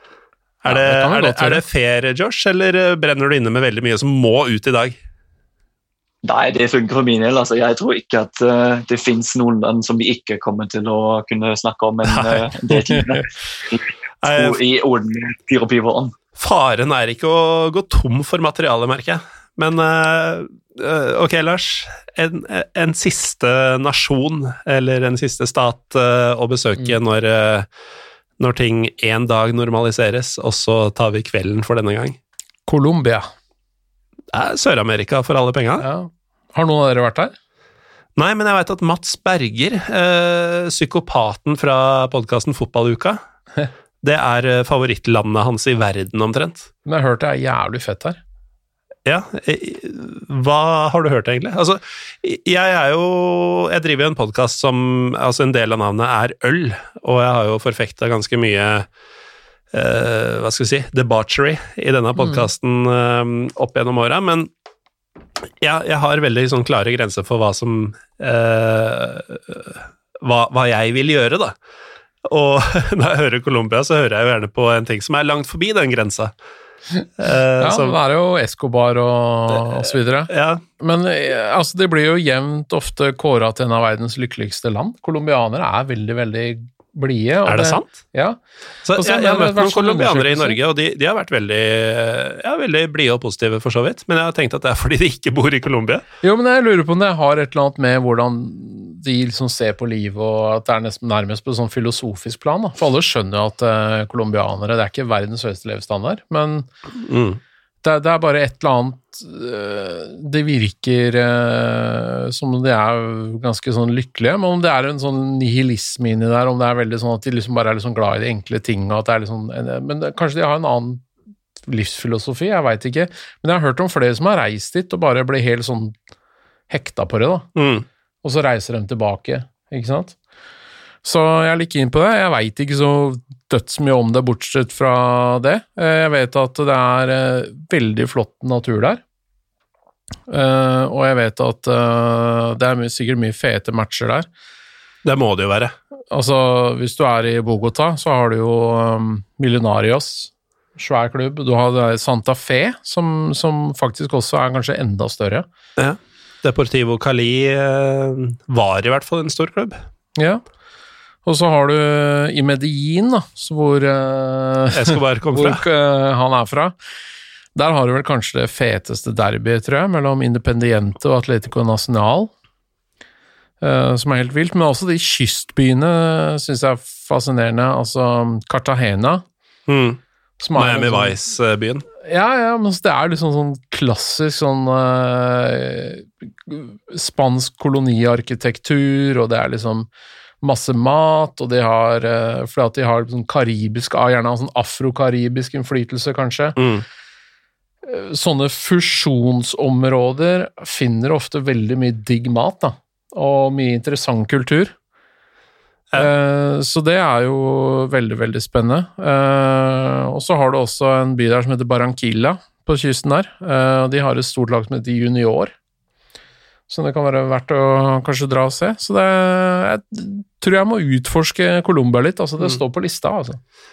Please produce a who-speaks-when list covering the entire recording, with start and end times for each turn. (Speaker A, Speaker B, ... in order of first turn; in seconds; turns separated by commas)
Speaker A: 0.6-5.0, Speaker B: 0.7-1.6, Speaker C: 6.2-16.1, Speaker A: 12.0-12.5, Speaker A: 14.2-14.6, Speaker A: 16.4-27.7, Speaker A: 28.4-32.2, Speaker B: 32.7-33.3, Speaker A: 34.3-35.9, Speaker B: 35.8-37.3, Speaker A: 38.2-43.2, Speaker A: 44.0-46.7, Speaker B: 46.9-48.2, Speaker A: 49.1-58.9, Speaker A: 59.7-64.5, Speaker B: 62.2-62.5, Speaker A: 65.6-71.5, Speaker A: 72.2-76.3, Speaker A: 77.2-78.0, Speaker B: 77.6-88.4, Speaker A: 80.3-80.6, Speaker A: 87.5-87.9, Speaker A: 88.9-96.0, Speaker B: 88.9-90.6, Speaker B: 96.2-106.7, Speaker A: 107.0-107.4, Speaker B: 107.8-121.1, Speaker B: 121.7-126.0, Speaker B: 126.7-127.5, Speaker A: 127.6-127.8, Speaker B: 128.2-130.2, Speaker B: 131.0-139.0, Speaker B: 140.3-144.3, Speaker A: 145.1-145.8, Speaker B: 146.1-155.5, Speaker A: 155.8-159.8, Speaker B: 160.2-160.4, Speaker B: 161.2-166.8, Speaker A: 164.7-165.6, Speaker B: 167.6-172.3, Speaker B: 173.6-179.2, Speaker A: 179.7-180.0, Speaker B: 180.4-181.2, Speaker A: 180.6-181.8, Speaker B: 182.1-189.9, Speaker B: 190.4-196.6, Speaker A: 196.6-196.8, Speaker B: 197.8-204.8, Speaker B: 206.0-215.5, Speaker B: 216.7-223.4